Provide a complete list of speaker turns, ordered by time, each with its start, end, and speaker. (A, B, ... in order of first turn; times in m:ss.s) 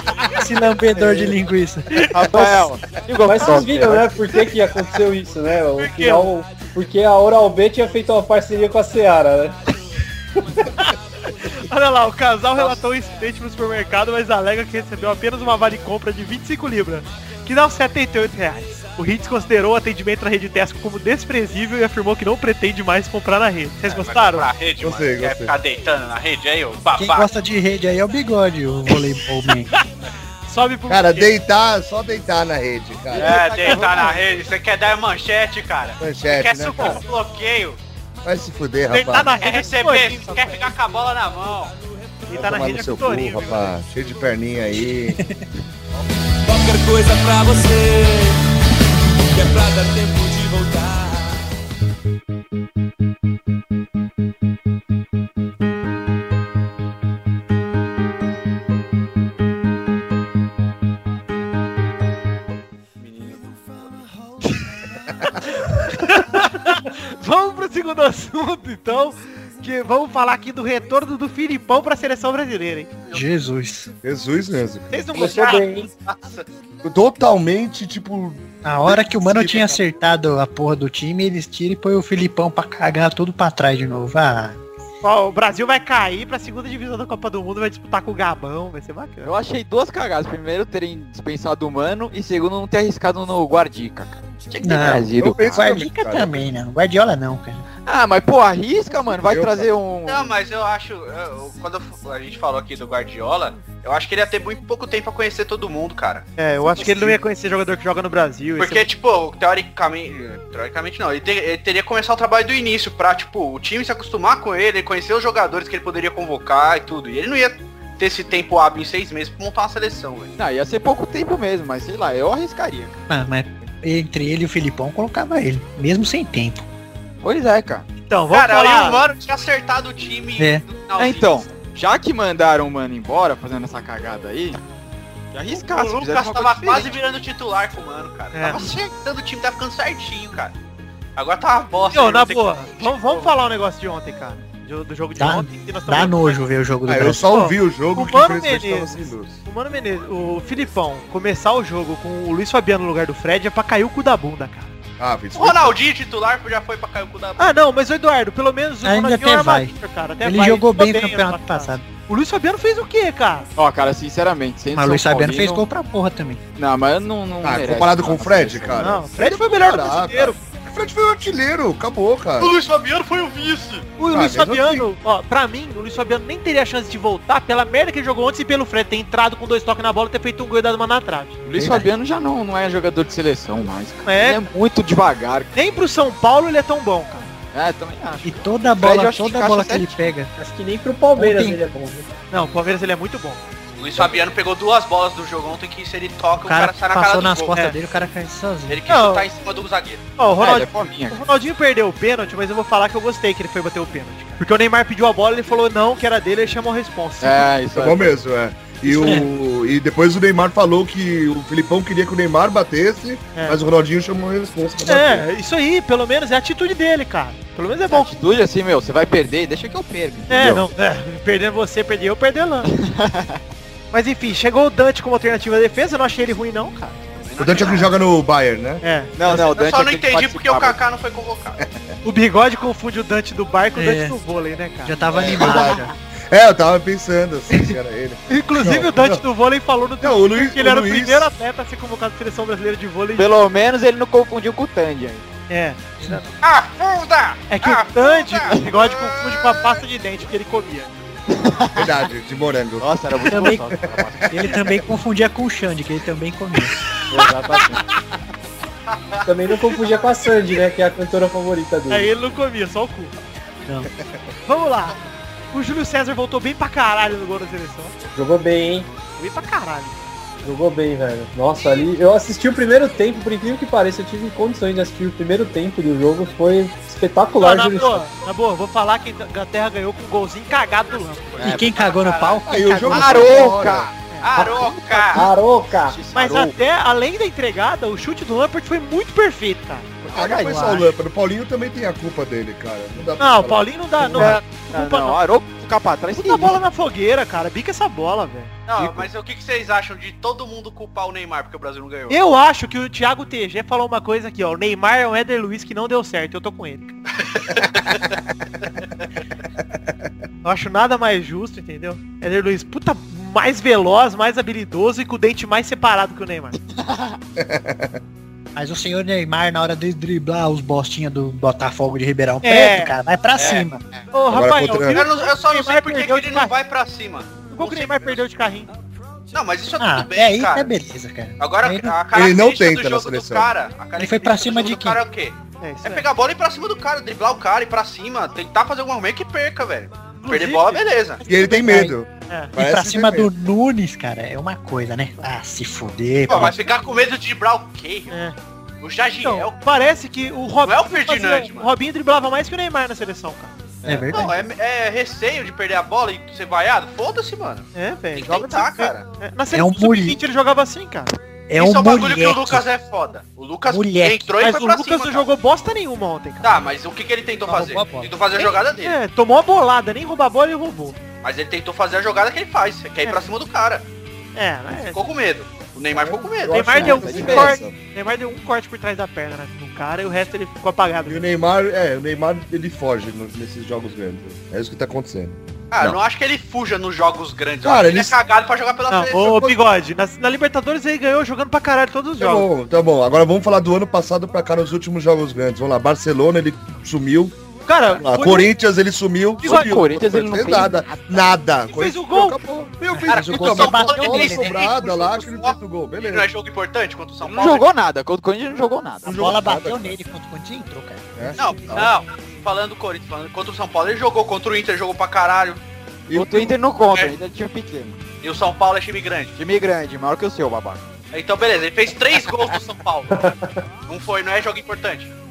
0:00.3-0:02.1 A
0:02.0-0:04.2 B
0:03.2-0:09.6 C
0:05.8-0:06.3 D
0:10.7-0:24.5 D
0:23.8-0:27.3 E
0:24.8-0:25.5 F
0:26.9-0:29.7 A
0:30.5-0:31.4 D
0:30.9-0:33.4 F
0:33.1-0:34.2 B
0:33.1-0:37.8 E
0:33.4-0:34.1 D
0:36.0-0:37.0 F
0:38.2-0:39.3 F
0:38.9-0:40.6 D
0:39.4-0:41.7 E
0:42.3-0:43.7 D
0:42.3-0:45.2 F
0:45.1-0:45.4 A
0:46.4-0:48.4 G
0:49.3-0:51.5 G
1:03.0-1:03.9 E
1:05.4-1:12.9 D
1:13.1-1:13.9 A
1:14.0-1:15.0 F
1:14.9-1:15.7 D
1:15.1-1:15.9 C
1:16.0-1:16.5 E
1:16.8-1:19.8 F
1:18.6-1:24.6 A
1:25.0-1:29.3 D
1:29.2-1:35.7 B
1:34.6-1:37.6 A
1:34.8-1:36.4 F
1:37.8-1:40.3 B
1:39.1-1:39.7 F
1:40.1-1:46.3 E
1:46.4-1:48.9 D
1:48.6-2:00.3 E
2:00.4-2:03.0 B
2:03.1-2:06.6 A
2:07.2-2:07.8 B
2:08.0-2:09.0 D
2:08.3-2:11.5 E
2:10.4-2:10.6 A
2:11.0-2:14.6 B
2:15.3-2:17.0 B
2:15.5-2:20.5 E
2:18.3-2:18.6 D
2:21.2-2:23.3 E
2:21.9-2:26.4 D
2:25.2-2:27.2 A
2:26.9-2:29.4 F
2:27.3-2:34.7 D
2:35.0-2:35.8 F
2:35.3-2:37.6 E
2:37.4-2:43.5 D
2:38.8-2:41.8 A
2:43.6-2:45.6 B
2:44.7-2:46.4 A
2:46.6-2:48.9 B
2:47.4-2:52.5 F
2:48.8-2:50.4 D
2:52.4-2:53.8 E
2:54.0-3:01.4 D
2:54.1-2:54.9 F
3:01.4-3:05.5 B
3:01.5-3:01.9 A
3:04.0-3:04.4 D
3:05.5-3:07.3 D
3:07.5-3:10.1 B
3:08.2-3:10.3 A
3:10.4-3:12.1 C
3:11.2-3:11.6 A
3:12.3-3:13.4 D
3:13.8-3:17.6 E
3:16.4-3:18.8 A
3:18.7-3:20.0 E
3:18.9-3:19.3 D
3:20.2-3:27.5 D
3:20.4-3:21.2 B
3:27.2-3:28.2 B
3:27.7-3:35.3 F
3:28.9-3:29.2 A
3:33.3-3:33.6 D
3:34.8-3:38.1 D
3:37.9-3:40.4 B
3:40.3-3:42.7 D
3:40.3-3:40.7 F
3:42.7-3:43.4 B
3:43.9-3:47.0 D
3:47.2-3:47.9 E
3:47.4-3:48.8 F
3:48.8-3:49.1 D
3:49.2-3:50.8 B
3:49.3-3:51.6 E
3:51.6-3:52.0 F
3:52.0-3:55.0 D
3:53.8-3:54.2 A
3:54.8-3:55.9 A
3:55.1-3:55.8 B
3:55.2-3:59.2 F
3:58.3-4:03.3 D
4:00.0-4:01.3 F
4:03.2-4:05.2 B
4:05.5-4:06.3 D
4:06.4-4:09.4 E
4:07.5-4:10.9 D
4:11.3-4:11.9 B
4:11.7-4:14.6 F
4:12.8-4:14.8 B
4:13.3-4:13.6 A
4:14.3-4:16.7 A
4:17.1-4:17.6 C
4:17.2-4:17.8 B
4:18.9-4:19.2 E
4:19.2-4:22.1 C
4:21.9-4:23.1 D
4:24.0-4:24.3 F
4:24.4-4:25.0 D
4:25.5-4:27.9 D
4:28.1-4:28.9 C
4:29.2-4:30.0 D
4:30.4-4:38.1 C
4:37.4-4:41.6 D
4:41.4-4:41.8 B
4:41.4-4:42.4 E
4:41.4-4:43.4 A
4:42.5-4:43.9 F
4:42.8-4:43.9 B
4:44.2-4:45.3 E
4:44.3-4:46.0 C
4:45.0-4:46.6 B
4:46.1-4:50.8 D
4:50.1-4:50.7 B
4:50.1-4:53.6 F
4:53.2-4:55.2 D
4:54.1-4:56.6 B
4:56.2-4:58.7 D
4:58.7-5:02.2 E
4:58.8-4:59.0 B
5:02.1-5:07.0 D
5:07.4-5:08.0 E
5:10.4-5:16.5 D
5:16.7-5:17.2 B
5:17.4-5:18.0 F
5:18.6-5:23.8 A
5:22.4-5:22.9 D
5:23.4-5:23.6 E
5:24.1-5:26.5 D
5:24.3-5:25.0 F
5:24.9-5:28.2 E
5:27.5-5:28.7 D
5:29.3-5:30.7 E
5:29.8-5:32.0 A
5:31.4-5:41.2 E
5:32.1-5:33.5 F
5:34.0-5:35.0 A
5:35.6-5:36.1 D
5:40.2-5:42.5 D
5:41.3-5:43.3 F
5:41.4-5:41.9 A
5:42.6-5:46.6 A
5:46.3-5:48.1 E
5:48.1-5:48.4 D
5:48.8-5:49.6 E
5:49.2-5:53.5 D
5:50.6-5:51.7 E
5:53.8-5:54.2 B
5:53.8-5:54.3 A
5:54.1-5:59.0 E
5:57.7-6:01.2 D
5:59.5-6:00.2 A
6:01.5-6:02.6 A
6:01.6-6:05.3 E
6:03.7-6:04.3 A
6:04.4-6:06.6 D
6:06.4-6:09.0 E
6:07.4-6:08.1 A
6:08.4-6:11.0 D
6:11.2-6:13.8 E
6:14.3-6:15.0 D
6:14.7-6:16.8 E
6:15.9-6:17.8 F
6:16.5-6:21.3 D
6:16.7-6:17.6 B
6:21.0-6:26.0 F
6:25.7-6:29.5 E
6:27.6-6:28.2 F
6:28.9-6:32.5 D
6:32.2-6:37.4 F
6:37.6-6:38.5 D
6:37.9-6:46.3 F
6:39.4-6:41.0 B
6:39.4-6:39.7 D
6:41.7-6:42.4 D
6:42.9-6:44.6 A
6:43.1-6:47.7 E
6:47.2-6:49.2 B
6:49.0-6:50.0 F
6:49.0-6:51.9 A
6:51.2-6:51.9 F
6:51.4-6:55.6 E
6:56.1-6:56.6 F
6:56.1-6:58.0 B
6:58.2-6:59.3 E
6:59.3-7:00.8 B
7:01.1-7:03.3 E
7:03.1-7:03.5 C
7:03.9-7:05.1 E